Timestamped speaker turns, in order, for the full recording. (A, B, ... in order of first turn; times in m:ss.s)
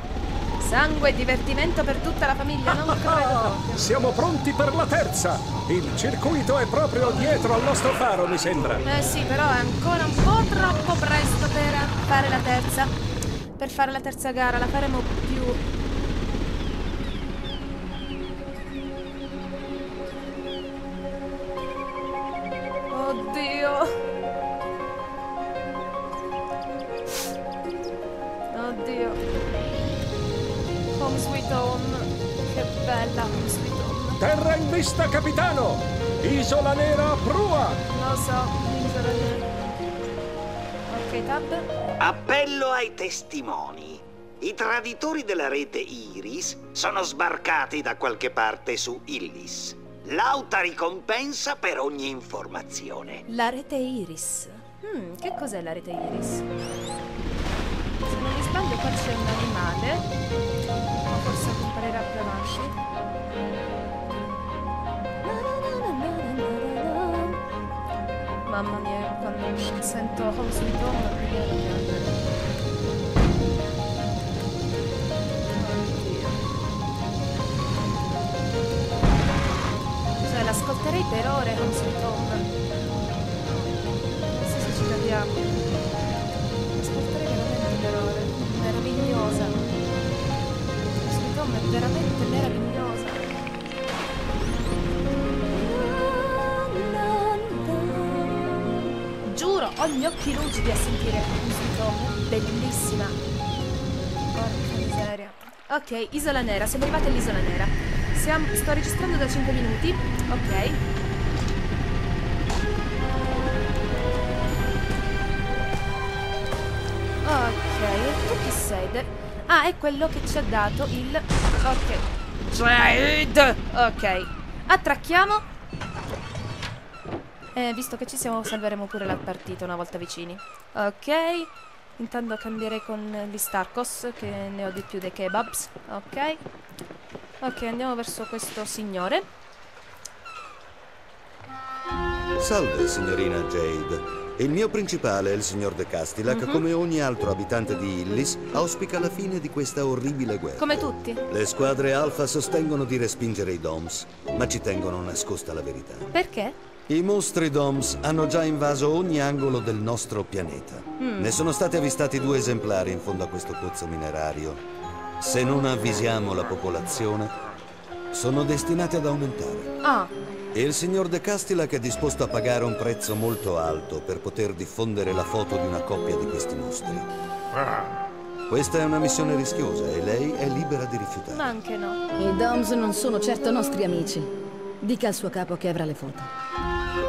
0:00.6-0:03.9 A
0:03.0-0:08.8 B
0:08.8-0:12.9 A
0:13.6-0:15.6 A
0:22.9-0:23.9 A
0:28.5-0:29.2 A
0:30.9-0:34.2 A
0:34.2-0:37.8 B
0:37.9-0:39.5 A
0:40.9-0:41.7 A
0:42.0-0:53.2 C
0:53.3-0:56.4 A
0:58.0-1:00.1 A
1:01.1-1:02.8 A
1:05.2-1:07.4 A
1:08.5-1:12.2 A
1:15.6-1:16.4 A
1:20.2-1:22.5 A
1:24.4-1:25.4 A
1:26.8-1:29.6 A
1:30.9-1:33.4 A
1:35.5-1:43.2 A
1:44.3-1:50.8 A
1:57.2-2:05.4 A
2:07.6-2:16.4 A
2:17.4-2:19.3 A
2:22.4-2:36.1 D
2:26.3-2:26.6 A
2:30.6-2:31.2 A
2:36.1-2:36.6 A
2:36.9-2:44.6 D
2:41.0-2:41.4 A
2:45.2-2:47.3 D
2:48.1-2:49.7 D
2:49.8-2:50.1 A
2:50.5-2:57.1 D
2:58.5-3:01.5 D
3:01.3-3:02.0 A
3:02.2-3:06.3 E